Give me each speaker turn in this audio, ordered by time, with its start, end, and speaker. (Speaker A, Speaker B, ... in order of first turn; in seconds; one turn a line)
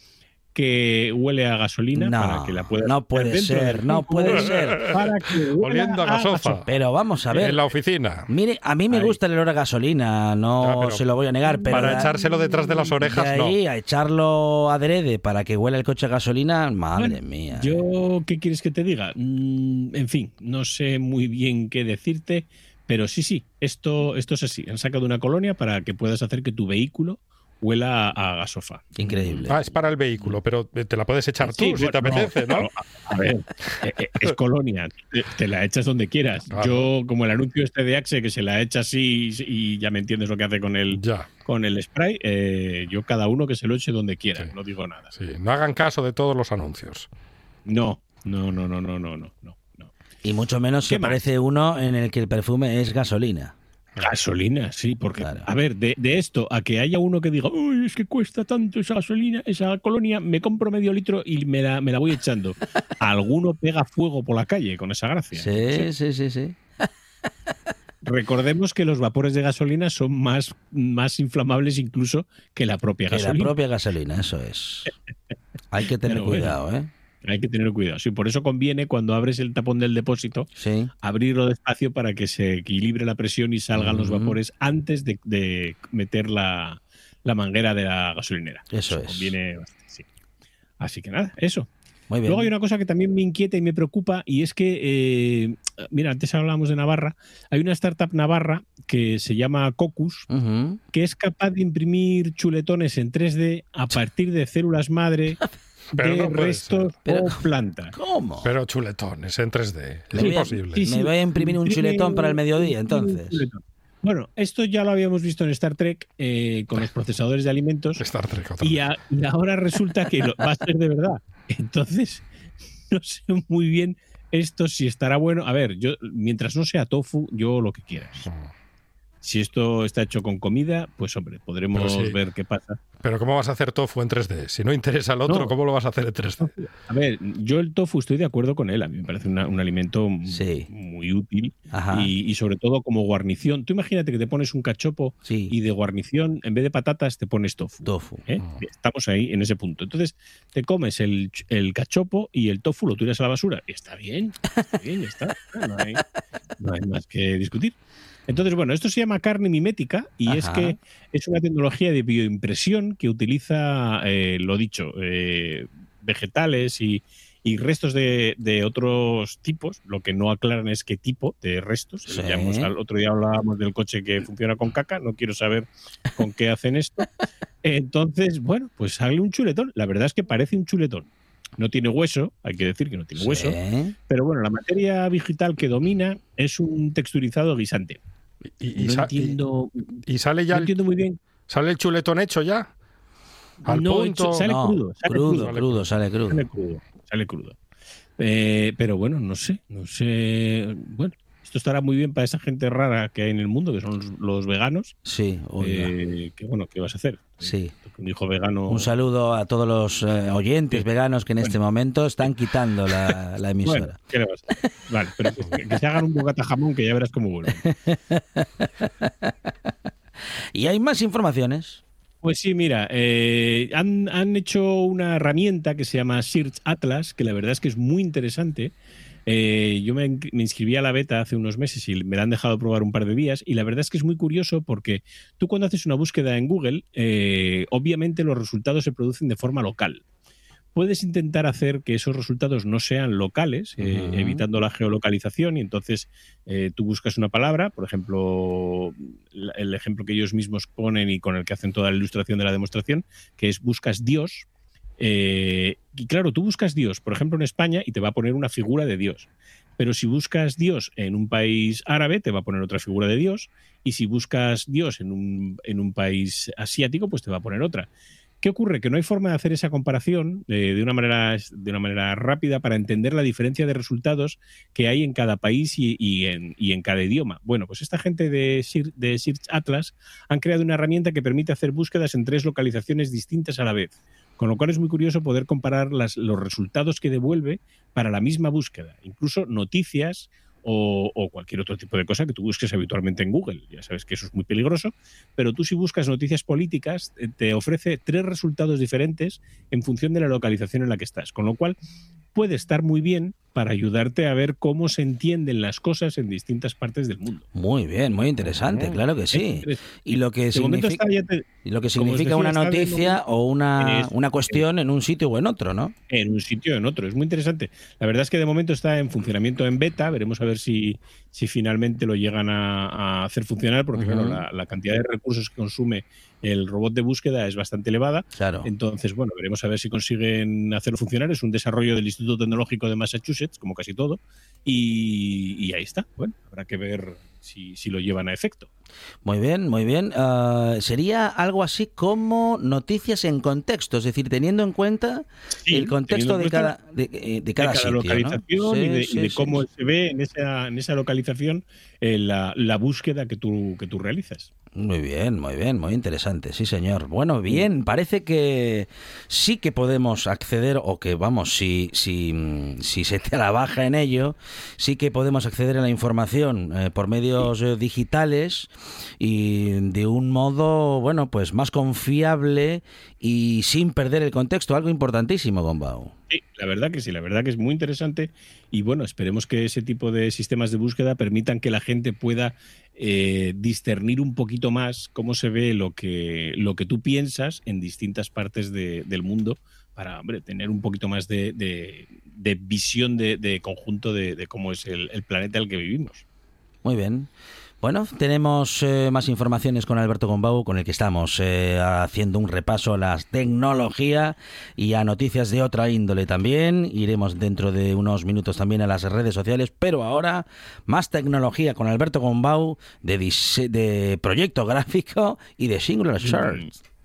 Speaker A: 0.6-6.7
Speaker B: 1.9-5.0
Speaker C: 5.6-6.7
Speaker B: 6.7-7.6
Speaker C: 7.3-8.3
Speaker B: 8.3-12.1
Speaker C: 10.6-11.0
Speaker A: 11.6-12.1
Speaker C: 11.7-13.6
Speaker B: 13.0-17.8
Speaker A: 17.0-29.5
Speaker B: 29.0-29.7
Speaker C: 29.5-32.7
Speaker A: 31.4-45.1
Speaker C: 36.5-36.9
Speaker C: 40.9-41.3
Speaker C: 45.1-47.1
Speaker A: 47.7-49.9
Speaker B: 50.2-53.5
Speaker A: 50.9-51.2
Speaker A: 54.0-65.9
Speaker B: 55.2-55.5
Speaker B: 65.3-66.6
Speaker A: 68.0-73.5
Speaker B: 73.1-74.9
Speaker B: 75.7-76.9
Speaker A: 76.0-76.6
Speaker A: 77.2-80.5
Speaker B: 80.6-80.9
Speaker A: 81.0-90.0
Speaker B: 83.8-84.4
Speaker B: 88.7-89.3
Speaker A: 90.8-91.7
Speaker B: 92.1-92.5
Speaker A: 92.3-100.3
Speaker B: 100.3-100.8
Speaker A: 100.9-105.4
Speaker A: 105.9-108.0
Speaker C: 106.0-106.9
Speaker B: 107.1-107.4
Speaker B: 107.9-108.5
Speaker C: 108.4-110.9
Speaker B: 110.1-113.5
Speaker A: 110.2-118.0
Speaker C: 118.0-118.8
Speaker A: 118.6-122.3
Speaker A: 122.9-128.3
Speaker A: 129.2-132.8
Speaker C: 131.7-132.2
Speaker C: 133.0-136.5
Speaker A: 135.3-135.5
Speaker A: 136.4-156.0
Speaker B: 140.3-140.7
Speaker B: 141.7-142.1
Speaker B: 145.2-145.5
Speaker B: 147.8-148.3
Speaker A: 156.6-157.8
Speaker A: 158.3-177.1
Speaker B: 160.3-160.8
Speaker B: 172.1-172.7
Speaker A: 177.6-181.1
Speaker A: 181.6-183.6
Speaker B: 183.2-183.9
Speaker A: 184.1-188.0
Speaker C: 188.6-189.4
Speaker A: 188.8-191.2
Speaker C: 190.1-190.8
Speaker C: 191.5-192.7
Speaker A: 193.7-195.6
Speaker C: 193.7-194.5
Speaker B: 194.3-196.5
Speaker C: 195.3-195.8
Speaker A: 196.3-197.6
Speaker A: 198.2-204.9
Speaker B: 205.1-205.9
Speaker A: 205.6-208.9
Speaker B: 207.4-207.7
Speaker B: 208.7-214.0
Speaker A: 213.6-217.7
Speaker B: 217.6-219.7
Speaker B: 220.5-221.8
Speaker A: 222.2-228.7
Speaker A: 229.3-240.0
Speaker A: 240.8-254.5
Speaker B: 243.8-244.4
Speaker A: 255.0-267.9
Speaker A: 268.4-301.8
Speaker A: 302.4-307.5
Speaker B: 307.5-311.0
Speaker C: 308.6-309.0
Speaker A: 309.3-313.2
Speaker B: 311.6-315.9
Speaker A: 313.8-314.6
Speaker A: 316.1-338.7
Speaker B: 323.9-324.4
Speaker B: 328.4-328.7
Speaker B: 339.2-349.6
Speaker A: 345.6-346.8
Speaker A: 347.6-354.5
Speaker B: 354.8-376.1
Speaker A: 376.3-396.2
Speaker B: 396.8-397.3
Speaker B: 397.8-416.7
Speaker A: 416.2-416.7